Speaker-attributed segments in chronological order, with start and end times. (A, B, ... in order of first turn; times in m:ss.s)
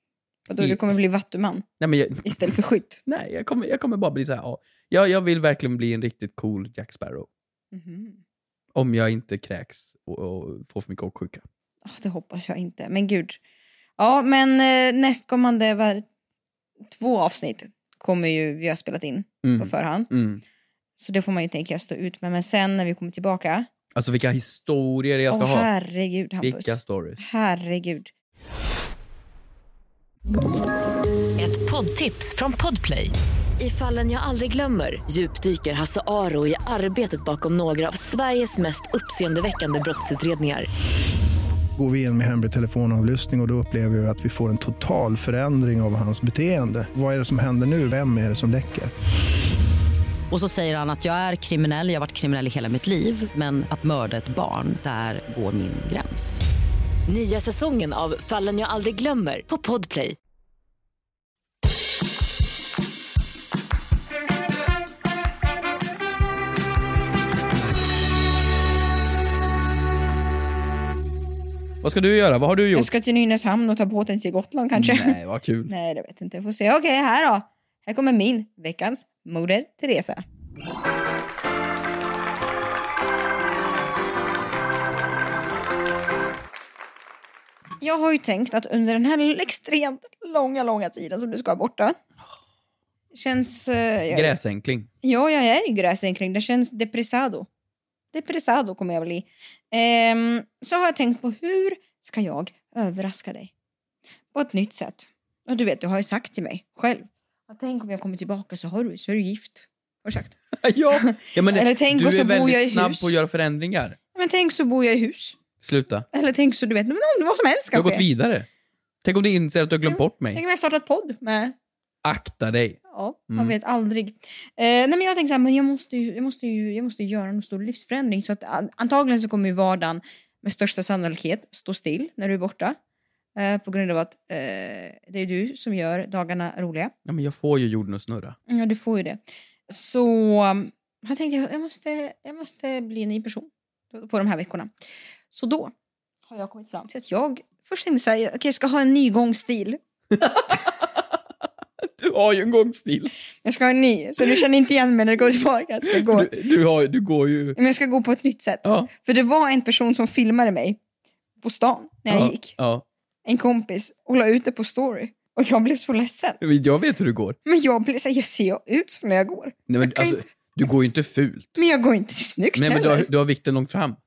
0:00.5-0:01.7 A
0:00.6-0:00.9 B
0:01.8-0:07.3 B
0:02.2-0:03.0 A
0:07.7-0:08.2 A
0:08.8-0:11.4 B
0:11.8-0:13.4 A
0:14.0-0:16.0 A
0:16.9-0:20.1 A
0:19.4-0:20.4 B
0:21.0-0:23.7 A
0:24.0-0:25.7 B
0:25.3-0:28.1 A
0:26.4-0:27.2 B
0:31.4-0:40.7 C
0:41.8-0:48.9 D
0:50.3-0:56.4 E
0:57.1-1:00.2 C
1:11.8-1:12.9 B
1:12.7-1:20.2 A
1:14.8-1:15.7 B
1:27.8-1:32.0 A
1:33.1-1:34.4 A
1:34.1-1:34.9 B
1:35.0-1:37.5 A
1:38.1-1:43.5 A
1:44.3-1:50.4 A
1:50.6-1:54.0 B
1:50.9-1:53.2 A
1:54.2-1:55.4 A
1:55.6-1:56.1 B
1:56.1-1:58.1 A
1:57.7-1:58.5 B
1:59.0-2:00.4 B
1:59.9-2:01.6 A
2:02.0-2:03.5 B
2:02.9-2:12.8 A
2:13.4-2:16.9 A
2:17.1-2:18.4 B
2:18.5-2:24.7 A
2:25.3-2:25.7 A
2:26.3-2:29.8 A
2:30.1-2:31.0 B
2:31.8-2:33.1 B
2:33.4-2:36.3 A
2:35.9-2:37.6 B
2:37.6-2:40.8 A
2:38.6-2:38.9 B
2:41.4-2:42.6 A
2:42.1-2:42.8 B
2:43.3-2:46.4 A
2:46.4-2:47.4 B
2:47.4-2:50.2 A
2:49.7-2:51.6 B
2:51.6-2:53.1 A
2:52.6-2:54.0 B